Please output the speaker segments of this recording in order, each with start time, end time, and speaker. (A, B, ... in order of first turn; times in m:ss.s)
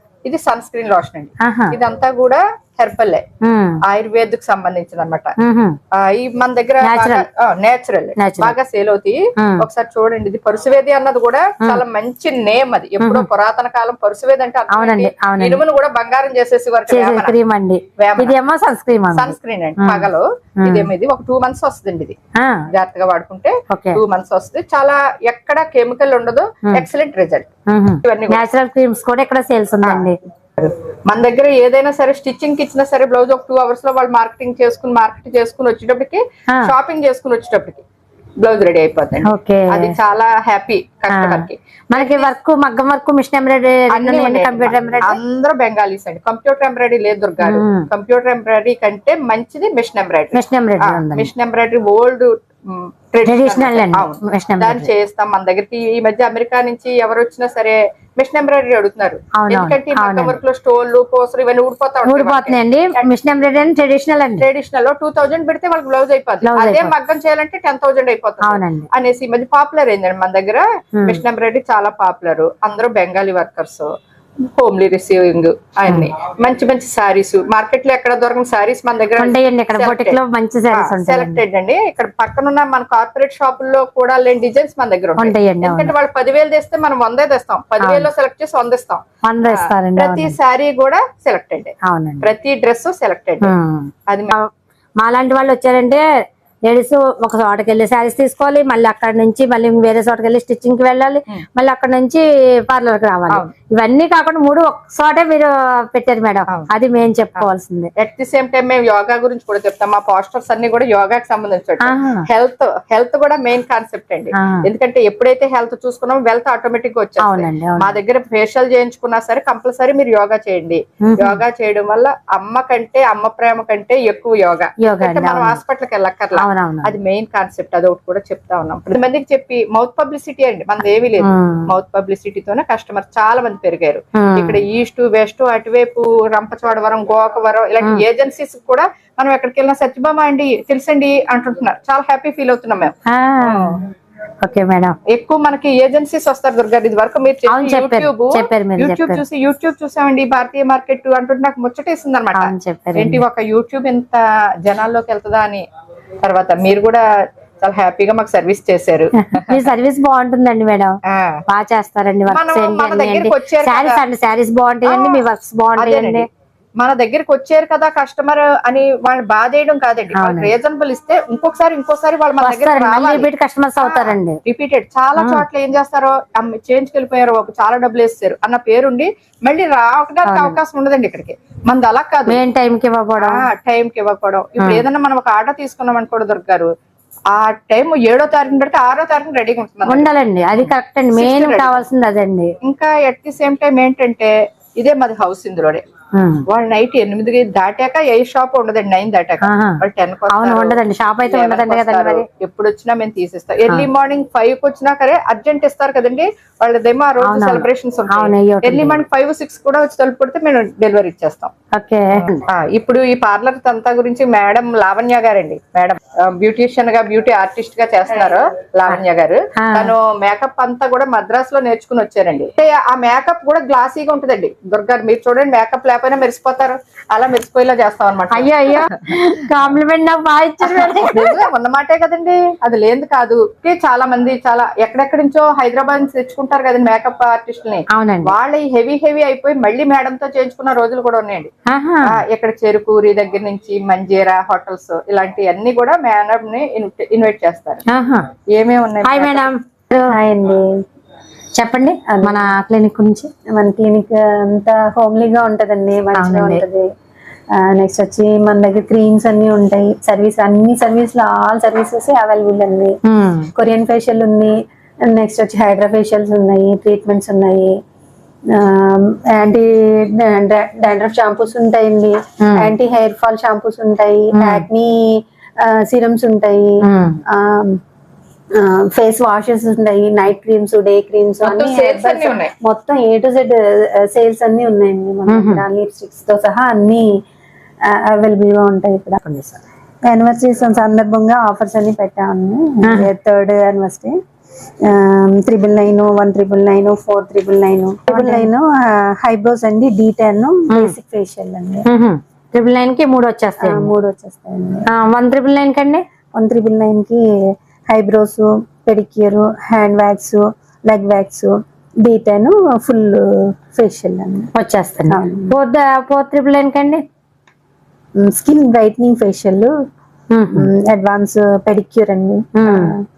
0:00.2-0:03.2 A
0:01.4-0:01.8 B
0:03.4-0:03.8 B
0:03.9-0:05.3 A
0:05.4-0:05.8 B
0:06.0-0:17.4 A
0:06.8-0:07.2 B
0:08.2-0:08.6 B
0:09.4-0:09.6 B
0:13.0-0:13.3 B
0:14.7-0:15.6 B
0:16.9-0:20.1 B
0:18.0-0:18.4 A
0:19.1-0:22.2 A
0:20.6-0:20.9 B
0:22.7-0:27.5 A
0:23.7-0:24.0 B
0:27.7-0:30.2 B
0:28.0-0:28.4 A
0:29.8-0:37.8 A
0:38.4-0:42.3 A
0:39.2-0:39.9 B
0:41.1-0:45.2 B
0:43.9-1:03.1 A
0:47.4-0:47.8 B
0:50.3-0:51.3 B
0:53.2-0:54.9 B
0:59.4-1:00.4 B
1:02.0-1:04.5 B
1:04.4-1:13.9 A
1:06.4-1:06.9 B
1:08.5-1:08.9 B
1:14.6-1:20.2 A
1:19.2-1:21.4 B
1:20.7-1:33.5 A
1:25.2-1:25.9 B
1:27.8-1:28.1 B
1:29.3-1:30.4 B
1:31.8-1:32.3 B
1:33.4-1:33.9 B
1:34.1-1:34.4 A
1:35.0-1:36.0 B
1:36.7-1:47.9 B
1:47.4-2:23.8 A
1:51.8-1:52.2 B
1:54.4-1:54.6 B
1:57.2-1:58.0 B
2:01.0-2:01.4 B
2:04.8-2:05.6 B
2:06.4-2:06.9 B
2:11.2-2:11.7 B
2:14.2-2:14.6 B
2:23.1-2:23.8 B
2:24.4-2:24.9 B
2:25.1-2:35.6 A
2:27.5-2:29.2 B
2:32.4-2:33.2 B
2:36.2-2:37.0 A
2:37.6-2:39.5 A
2:39.4-2:41.0 B
2:41.1-2:41.4 A
2:41.5-2:46.3 B
2:42.3-2:44.0 A
2:44.9-2:45.2 A
2:45.8-2:46.3 A
2:46.8-2:53.3 A
2:50.2-2:50.5 B
2:52.4-2:54.4 B
2:53.8-3:02.4 A
2:55.2-2:55.4 B
3:00.3-3:00.6 B
3:02.3-3:03.4 B
3:03.2-3:06.7 A
3:07.3-3:11.9 A
3:09.9-3:12.5 B
3:12.6-3:15.8 A
3:16.5-3:31.5 A
3:19.4-3:19.7 B
3:20.3-3:22.2 B
3:27.2-3:29.0 B
3:31.8-3:32.4 B
3:32.2-3:49.1 A
3:39.6-3:39.9 B
3:48.3-3:51.4 B
3:50.7-4:01.5 A
3:57.9-3:58.3 B
4:01.7-4:02.1 B
4:02.1-4:07.8 A
4:07.9-4:08.2 B
4:08.6-4:09.5 A
4:09.0-4:10.2 B
4:10.1-4:10.6 C
4:11.6-4:13.3 B
4:12.1-4:12.4 C
4:13.6-4:16.8 C
4:16.2-4:16.6 B
4:17.6-4:22.9 C
4:23.1-4:23.5 B
4:23.6-4:24.5 C
4:25.1-4:27.8 C
4:28.5-4:36.7 C
4:32.4-4:32.7 B
4:34.3-4:34.7 B
4:36.8-4:37.2 B
4:37.3-4:37.8 C
4:38.6-4:47.1 C
4:41.4-4:42.5 A
4:45.3-4:45.6 B
4:47.9-4:49.2 C
4:49.2-4:49.6 B
4:50.1-4:54.1 C
4:52.8-4:53.1 B
4:54.9-5:01.8 C
4:58.1-4:58.5 B
5:00.7-5:01.0 B
5:01.9-5:03.9 B
5:03.6-5:04.9 C
5:04.9-5:06.0 B
5:06.4-5:07.2 C
5:07.9-5:14.5 C
5:14.6-5:17.0 B
5:15.1-5:15.6 C
5:18.2-5:19.7 C
5:20.3-5:20.7 B
5:20.5-5:23.0 C
5:22.6-5:22.9 B